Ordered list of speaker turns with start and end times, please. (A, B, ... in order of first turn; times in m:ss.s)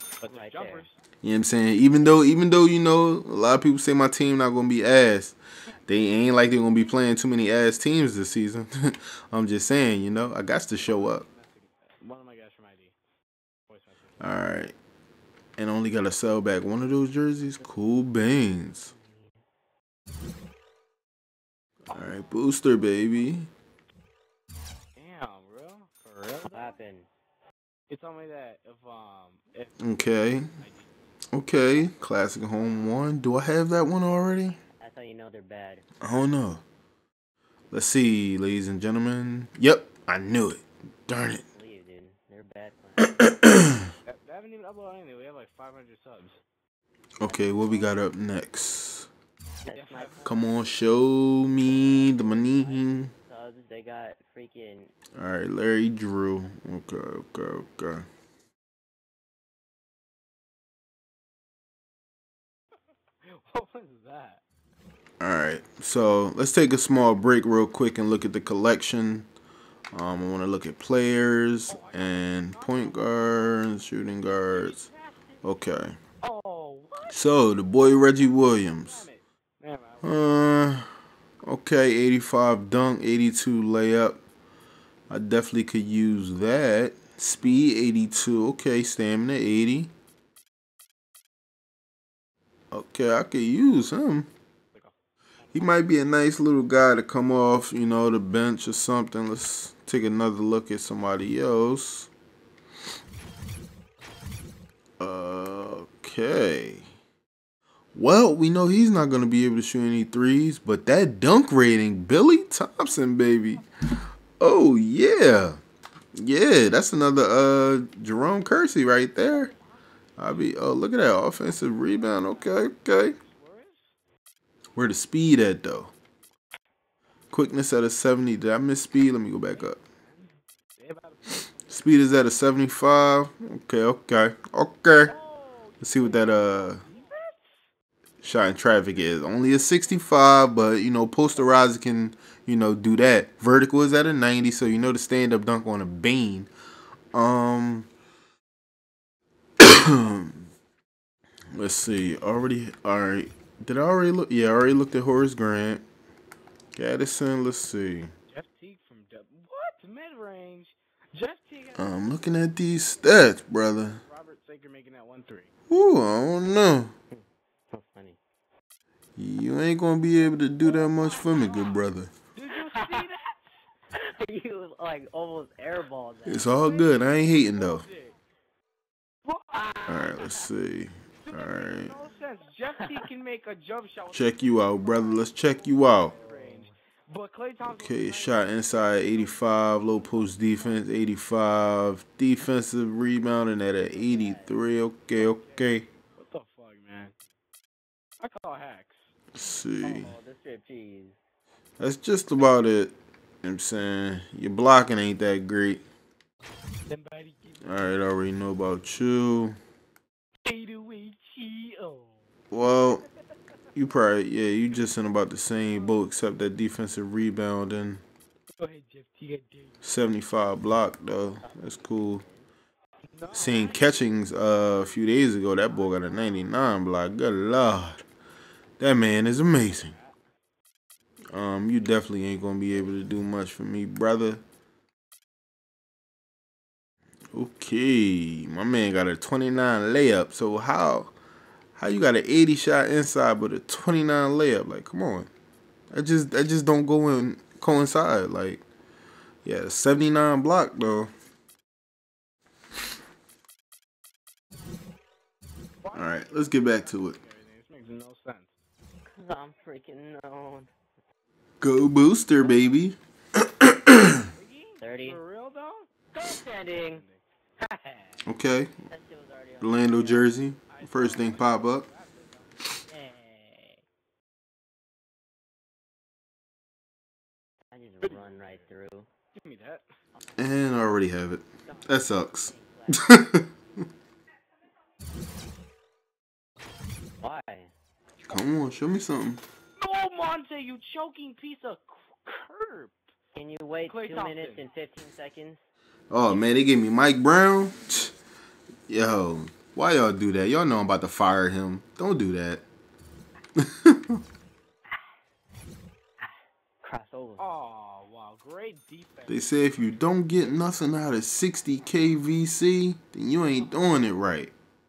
0:00.2-0:01.0 A
0:00.3-0:00.8 B
0:01.2-0:05.4 C
0:05.9-0:11.3 C
0:10.8-0:13.0 A
0:13.7-0:14.4 A
0:14.2-0:14.7 C
0:15.6-0:18.9 C
0:18.9-0:19.4 B
0:21.9-0:23.5 C
0:25.0-0:26.8 A
0:26.4-0:27.1 B
0:27.9-0:30.9 A
0:29.8-0:30.5 C
0:31.3-0:34.6 C
0:34.8-0:35.8 B
0:36.0-0:36.6 C
0:37.7-0:41.4 C
0:41.5-0:43.3 B
0:43.0-0:43.9 C
0:44.1-0:46.4 A
0:47.2-0:49.1 C
0:49.6-0:50.4 B
0:49.7-0:50.4 A
0:50.2-0:53.1 C
0:51.7-0:54.9 B
0:55.2-0:58.1 C
1:03.3-1:04.4 A
1:05.2-1:09.3 C
1:09.9-1:14.9 C
1:11.7-1:13.8 A
1:14.4-1:15.3 A
1:15.4-1:16.0 C
1:16.2-1:17.2 A
1:17.1-1:19.1 C
1:17.8-1:20.4 A
1:20.0-1:20.9 C
1:21.4-1:24.2 C
1:25.1-1:29.9 C
1:32.7-1:34.3 C
1:35.6-1:42.1 C
1:45.0-1:46.8 C
1:48.0-1:53.6 C
1:54.4-1:55.6 C
1:56.2-1:59.5 C
2:00.2-2:03.2 C
2:01.6-2:03.9 A
2:04.8-2:05.9 C
2:07.3-2:09.8 C
2:09.5-2:11.8 A
2:11.7-2:15.2 C
2:15.1-2:17.6 A
2:15.8-2:16.8 C
2:18.2-2:26.5 C
2:27.1-2:27.9 C
2:29.6-2:30.5 C
2:31.5-2:35.8 C
2:36.8-2:38.1 C
2:38.3-2:45.5 A
2:41.8-2:44.0 C
2:45.7-2:46.9 C
2:47.1-2:48.2 B
2:49.2-2:52.1 C
2:51.1-2:51.6 A
2:52.3-2:53.5 A
2:52.7-2:53.1 B
2:54.0-2:56.6 B
2:56.3-2:57.9 C
2:56.5-2:58.2 A
2:59.2-3:00.2 A
2:59.5-3:00.3 B
2:59.9-3:01.9 C
3:01.2-3:10.5 A
3:04.1-3:06.1 C
3:06.0-3:06.7 B
3:07.6-3:15.9 C
3:13.9-3:14.5 B
3:15.2-3:17.1 A
3:18.2-3:19.1 A
3:19.3-3:20.1 C
3:19.8-3:21.2 B
3:21.8-3:25.8 C
3:26.9-3:28.0 A
3:27.6-3:29.6 C
3:30.4-3:32.1 A
3:32.5-3:33.0 C
3:33.8-3:38.0 C
3:38.6-3:39.8 A
3:39.8-3:42.2 C
3:41.4-3:42.5 B
3:43.1-3:46.5 A
3:43.3-3:48.0 C
3:48.8-3:49.9 C
3:49.6-3:50.2 A
3:51.3-3:54.4 C
3:57.3-4:01.1 C
4:01.8-4:05.3 C
4:05.9-4:08.6 C
4:09.4-4:11.1 C
4:15.8-4:18.6 A
4:15.9-4:17.2 C
4:19.1-4:20.7 B
4:21.6-4:24.3 C
4:24.2-4:25.9 A
4:24.8-4:25.2 B
4:26.1-4:27.0 B
4:26.6-4:28.2 A
4:28.2-4:28.7 C
4:28.9-4:30.4 B
4:29.6-4:31.9 C
4:30.7-4:33.8 A
4:37.7-4:39.1 B
4:38.0-4:38.6 A
4:39.4-4:39.8 A
4:40.4-4:43.5 C
4:41.6-4:43.2 B
4:47.2-4:47.7 B
4:48.3-4:49.4 C
4:49.8-4:53.1 A
4:53.3-4:55.6 B
4:53.9-4:54.6 A
4:56.1-4:58.1 C
4:58.9-5:02.6 C
5:03.6-5:04.2 C
5:06.8-5:07.5 B
5:07.4-5:10.9 A
5:09.3-5:14.5 C